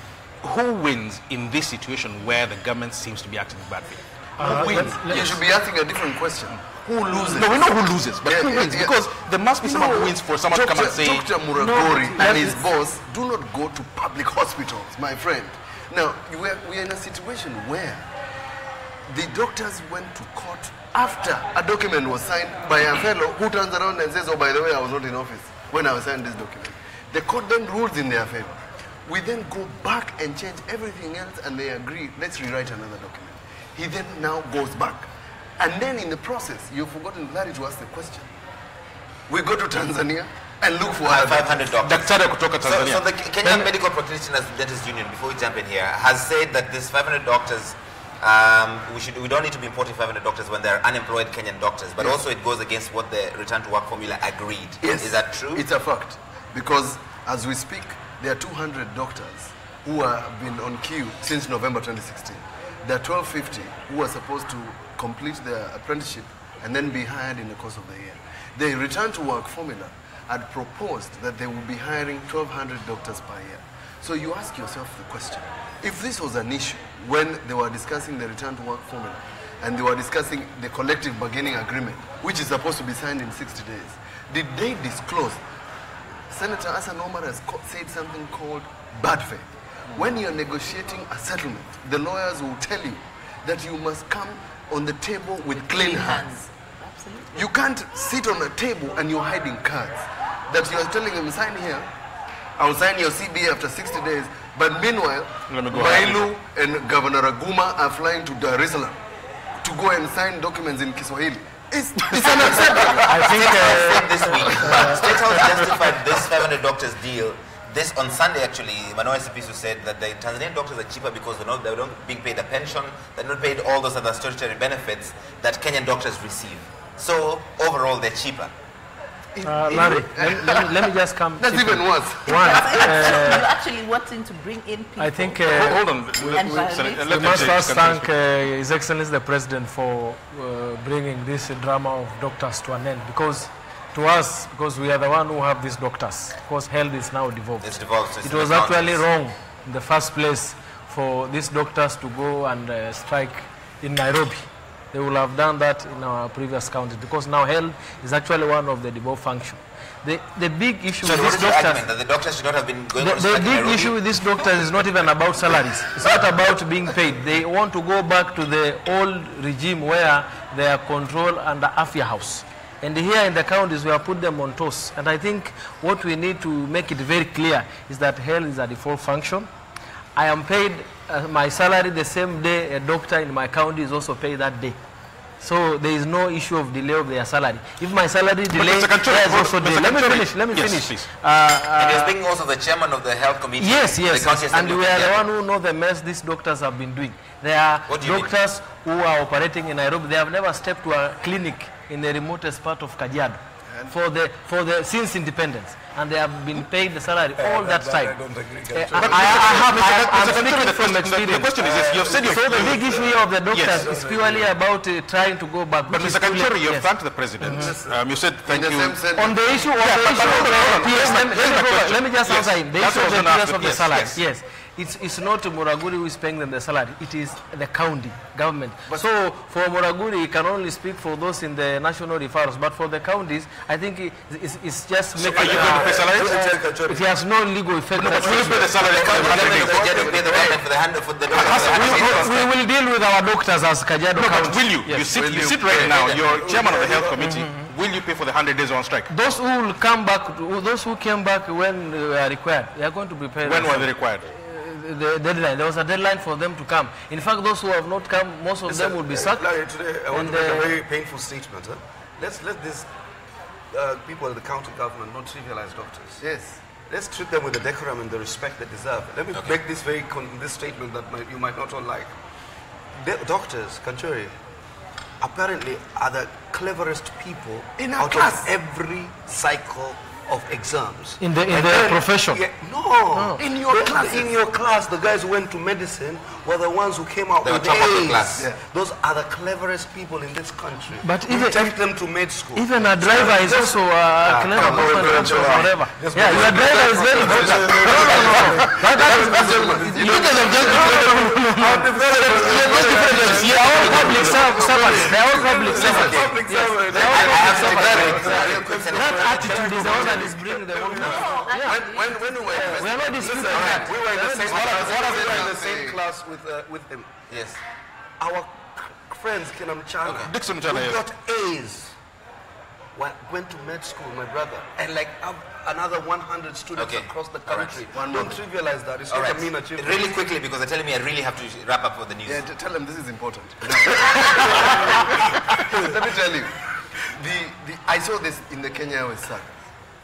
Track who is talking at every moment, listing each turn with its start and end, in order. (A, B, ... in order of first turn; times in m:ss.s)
0:00.4-0:05.3 A
0:04.4-0:05.3 B
0:04.4-0:07.6 C
0:06.6-0:11.3 A
0:08.2-0:09.0 C
0:09.6-0:18.0 C
0:11.6-0:12.6 B
0:19.1-0:38.3 C
0:39.3-0:41.6 C
0:41.0-0:55.6 D
0:41.8-0:43.7 A
0:54.8-1:25.4 C
1:26.3-1:36.4 C
1:35.5-1:37.5 E
1:37.3-1:41.9 C
1:42.6-1:49.0 C
1:45.5-1:46.3 A
1:49.6-1:53.3 C
1:52.1-1:52.4 A
1:52.1-1:55.0 B
1:52.3-2:08.5 D
1:54.6-1:55.2 C
2:09.3-2:10.8 C
2:09.4-2:13.4 B
2:11.4-2:13.4 C
2:12.3-2:17.5 E
2:15.0-2:15.8 B
2:15.4-2:18.1 A
2:17.1-2:41.8 B
2:27.6-2:29.0 D
2:41.0-2:44.0 D
2:43.0-2:59.5 B
3:00.1-3:04.8 B
3:05.4-3:12.2 B
3:08.5-3:11.1 A
3:11.8-3:15.2 D
3:13.6-3:28.2 B
3:17.9-3:18.3 D
3:27.4-3:29.7 F
3:28.7-3:31.6 B
3:28.9-3:33.0 A
3:29.0-3:29.4 C
3:31.6-3:34.5 F
3:32.2-3:36.9 B
3:33.5-3:33.9 A
3:35.9-3:39.1 A
3:37.4-3:37.7 B
3:37.6-3:37.9 F
3:37.6-3:39.6 C
3:39.2-3:58.9 B
3:39.6-3:44.2 A
3:40.2-3:41.2 C
3:55.2-3:56.5 A
3:55.2-3:57.1 F
3:57.9-3:59.9 A
3:58.0-4:00.6 F
3:58.8-4:02.4 D
4:01.3-4:02.5 A
4:01.4-4:05.2 B
4:04.1-4:09.1 A
4:05.1-4:06.2 C
4:05.7-4:06.2 D
4:05.9-4:07.2 F
4:07.2-4:07.7 B
4:09.1-4:19.5 B
4:13.4-4:14.3 A
4:18.6-4:22.9 F
4:20.1-4:20.7 B
4:23.7-4:26.2 F
4:26.2-4:26.6 C
4:26.9-4:32.1 F
4:32.9-4:34.3 F
4:35.2-5:17.1 F
4:37.8-4:38.5 C
4:41.2-4:42.4 B
4:43.1-4:43.4 B
4:43.4-4:44.3 C
4:47.4-4:48.5 D
4:51.0-4:51.7 B
4:52.5-5:11.9 B
4:54.5-5:06.3 C
5:03.2-5:04.7 A
5:03.7-5:04.1 D
5:05.5-5:10.4 D
5:07.8-5:08.7 C
5:11.0-5:12.1 E
5:11.6-5:13.8 C
5:12.4-5:14.8 B
5:14.4-5:16.0 C
5:17.3-5:17.6 D
5:18.2-5:21.9 F
5:20.0-5:20.3 D
5:20.2-5:21.0 A
5:22.9-5:30.3 F
5:26.7-5:27.8 D
5:27.9-5:28.4 C
5:29.1-5:32.4 D
5:32.2-5:39.6 C
5:34.4-5:35.0 F